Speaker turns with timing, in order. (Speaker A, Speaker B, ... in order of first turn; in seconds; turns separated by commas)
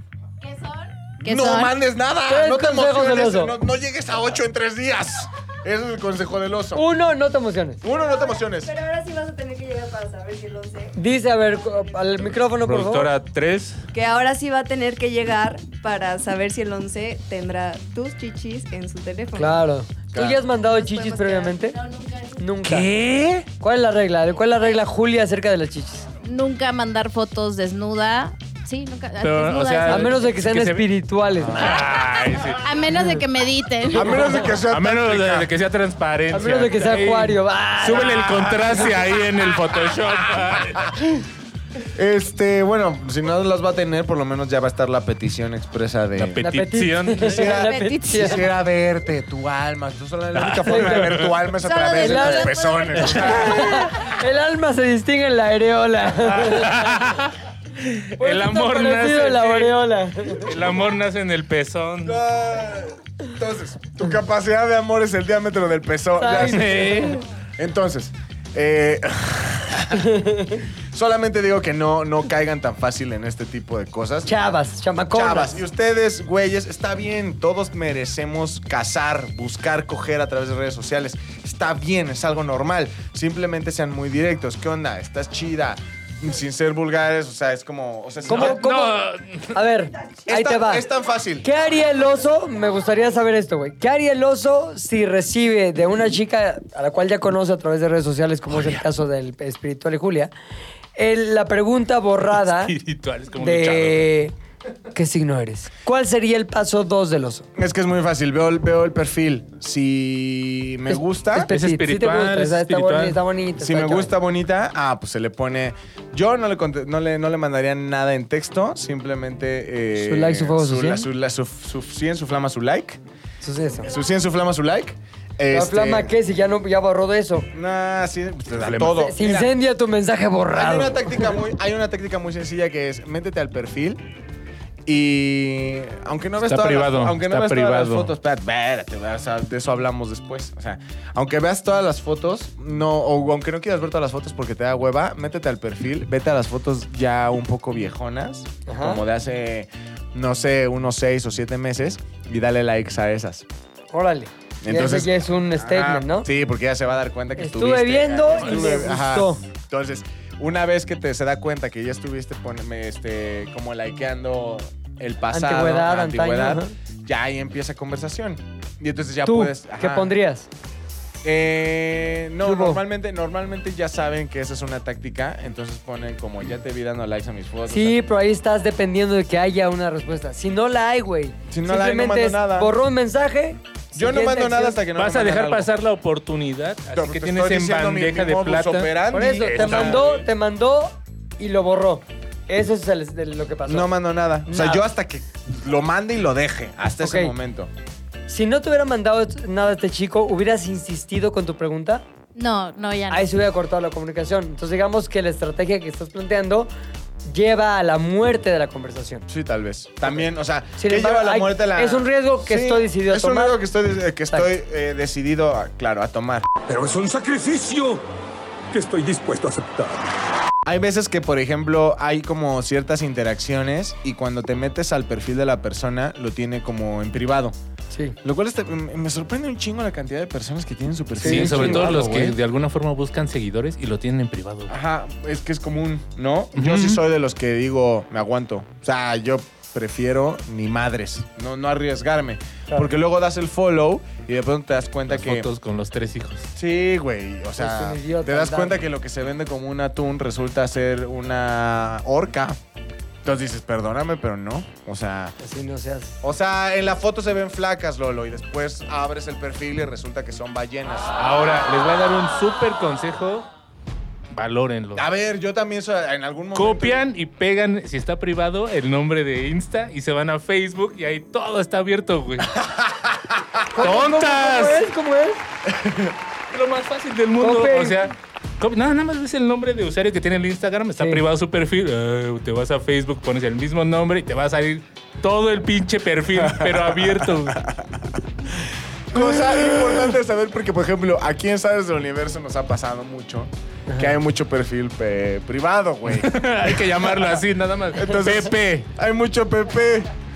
Speaker A: 0.4-1.7, Speaker B: 1.2-6.8, Speaker C: 2.3-3.6, Speaker C: 6.8-7.8, Speaker B: 7.8-8.7, Speaker D: 7.9-10.9, Speaker C: 11.0-13.1, Speaker E: 12.6-13.9, Speaker D: 13.9-19.6, Speaker C: 19.4-21.8, Speaker B: 20.1-20.4, Speaker D: 20.7-21.6, Speaker A: 21.8-22.4, Speaker C: 22.4-22.9, Speaker E: 22.6-23.5, Speaker C: 23.6-26.1, Speaker A: 26.2-30.2, Speaker E: 29.2-30.9, Speaker C: 29.9-31.8, Speaker B: 31.4-31.8, Speaker E: 31.5-32.6, Speaker A: 32.6-34.5, Speaker B: 33.9-35.5, Speaker E: 34.7-40.9, Speaker C: 36.3-38.5, Speaker B: 38.2-39.0, Speaker B: 42.0-46.4, Speaker E: 46.1-47.5, Speaker C: 46.4-48.5, Speaker B: 47.2-53.9, Speaker A: 47.5-48.4, Speaker E: 50.4-51.3, Speaker C: 50.6-51.2, Speaker A: 51.6-53.4, Speaker C: 52.0-52.6, Speaker C: 53.1-57.0, Speaker E: 56.2-62.2, Speaker C: 58.2-60.5, Speaker B: 62.0-67.0, Speaker C: 66.2-67.2, Speaker E: 66.4-67.2, Speaker B: 67.6-70.2, Speaker C: 70.0-70.6, Speaker B: 70.9-74.4, Speaker C: 74.3-75.6, Speaker B: 75.1-88.8, Speaker C: 88.3-89.0, Speaker E: 88.3-89.5, Speaker C: 89.5-90.9, Speaker B: 90.3-91.5, Speaker C: 91.4-100.3, Speaker C: 101.0-102.8, Speaker E: 102.4-104.0, Speaker C: 103.4-104.3, Speaker C: 104.9-107.5, Speaker B: 107.6-111.5, Speaker C: 110.9-114.1, Speaker E: 111.4-113.2, Speaker B: 113.6-123.0, Speaker C: 120.0-121.1, Speaker C: 123.4-123.9, Speaker B: 123.8-126.1, Speaker C: 125.5-127.5, Speaker B: 127.5-129.6, Speaker E: 128.6-129.0, Speaker C: 128.9-131.3, Speaker B: 130.5-134.0, Speaker B: 134.9-153.5, Speaker E: 136.5-138.1, Speaker C: 148.7-149.0, Speaker C: 153.9-156.3, Speaker B: 154.6-170.1, Speaker C: 157.4-159.4, Speaker E: 158.4-158.7, Speaker C: 165.3-166.7, Speaker C: 169.2-170.5, Speaker B: 171.2-178.0, Speaker C: 172.4-172.8, Speaker C: 177.7-184.8, Speaker B: 181.5-182.8, Speaker B: 183.9-185.7, Speaker E: 185.0-190.2, Speaker B: 186.9-190.2, Speaker C: 189.1-194.8, Speaker B: 193.7-197.7, Speaker C: 197.0-197.3, Speaker C: 198.3-202.0, Speaker A: 202.3-203.3, Speaker C: 203.1-206.7, Speaker C: 207.3-209.3, Speaker B: 209.3-216.5, Speaker C: 210.8-213.6, Speaker F: 216.7-218.1, Speaker F: 218.7-220.1, Speaker B: 220.7-227.6, Speaker C: 227.9-228.2, Speaker B: 228.2-232.4, Speaker C: 231.2-232.3, Speaker E: 231.2-234.7, Speaker B: 234.7-245.5, Speaker E: 236.6-237.0, Speaker E: 245.1-246.5, Speaker B: 246.6-252.6, Speaker C: 247.6-248.8, Speaker B: 253.2-255.4, Speaker C: 255.4-256.2, Speaker B: 256.2-261.1, Speaker E: 261.2-263.5, Speaker E: 264.3-265.1, Speaker B: 264.9-267.1, Speaker E: 266.6-272.6, Speaker B: 272.6-273.4, Speaker E: 273.8-274.9, Speaker C: 273.8-275.4, Speaker B: 275.7-276.1, Speaker E: 276.5-287.6, Speaker C: 277.4-278.1, Speaker C: 281.0-281.2, Speaker B: 286.4-297.4, Speaker E: 296.1-298.6, Speaker B: 297.9-300.1